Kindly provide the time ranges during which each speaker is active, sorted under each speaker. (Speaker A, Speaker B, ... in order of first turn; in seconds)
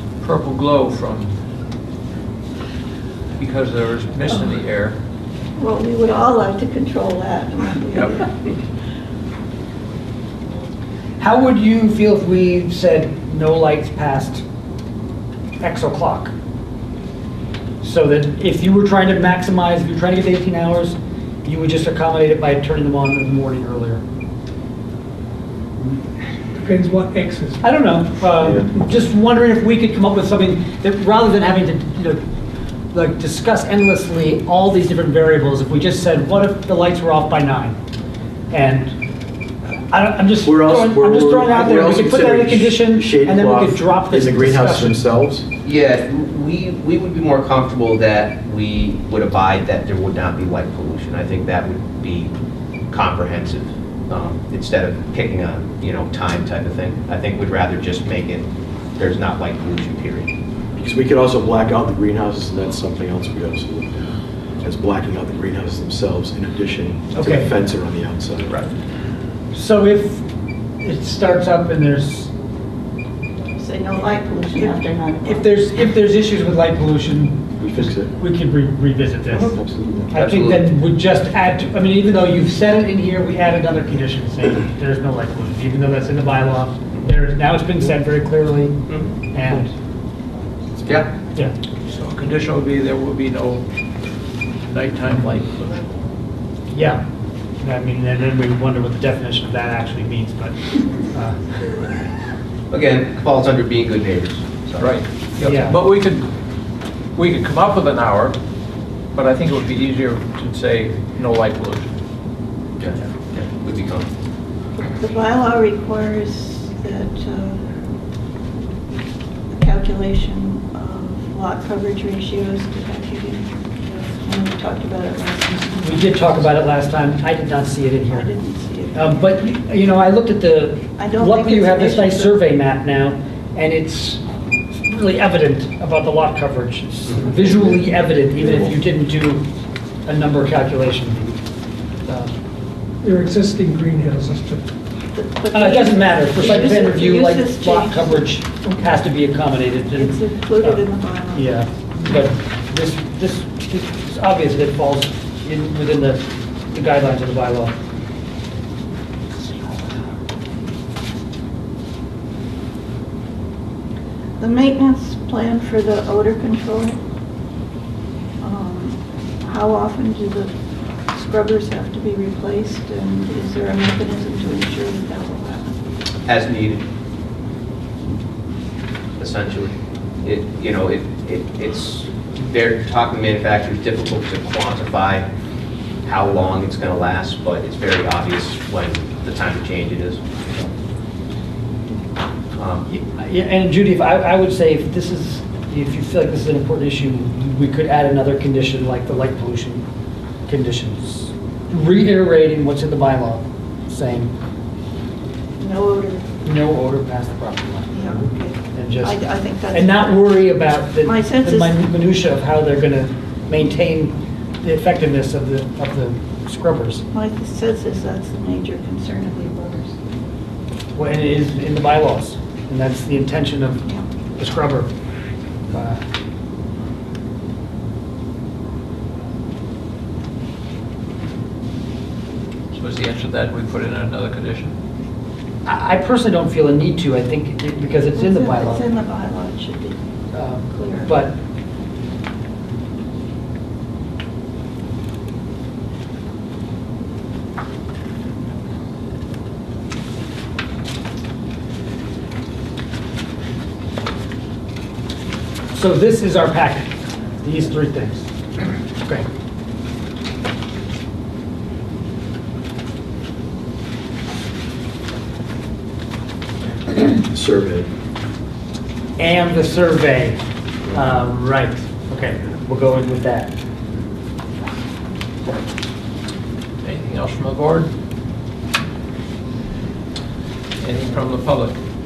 Speaker A: 0.2-1.3, 3.4-5.0, 91.8-93.6, 94.7-95.8, 104.8-106.3, 107.1-108.4, 109.1-111.9, 232.7-234.7, 276.8-277.9, 280.8-281.8
Speaker B: 5.6-8.3, 73.6-75.4, 114.8-117.6, 119.5-126.2, 128.1-129.3, 131.0-132.3, 145.1-148.3, 149.9-151.5, 164.4-167.0, 168.4-170.5, 171.1-175.7, 205.6-206.3, 207.9-210.1, 211.0-211.8, 217.1-219.9, 238.1-240.0, 240.7-241.1
Speaker C: 11.2-14.4, 15.6-16.3, 17.8-24.0, 27.6-32.2, 32.9-37.8, 38.5-38.9, 39.9-45.0, 67.1-67.5, 69.5-70.2, 70.8-72.3, 74.5-79.6, 80.1-88.8, 89.3-89.7, 96.7-97.0, 97.6-101.4, 105.4-105.8, 125.7-128.3, 128.9-134.2, 134.8-139.5, 140.1-141.4, 142.1-142.3, 145.5-150.8, 151.3-157.8, 192.9-199.8, 200.5-204.3, 206.4-209.2, 209.7-217.0, 220.9-224.9, 225.7-226.0, 235.6-238.8, 240.3-241.4, 255.7-258.3, 269.2-273.5
Speaker D: 26.5-27.6, 143.0-144.7
Speaker E: 28.4-28.7, 40.4-45.5, 60.8-68.5, 77.6-78.2, 79.3-80.1, 267.0-267.9
Speaker F: 45.6-52.3, 52.9-60.3, 80.1-80.7, 90.8-91.1, 102.7-104.9, 112.8-114.1, 176.2-176.9, 179.2-185.3, 186.0-190.3, 192.6-192.9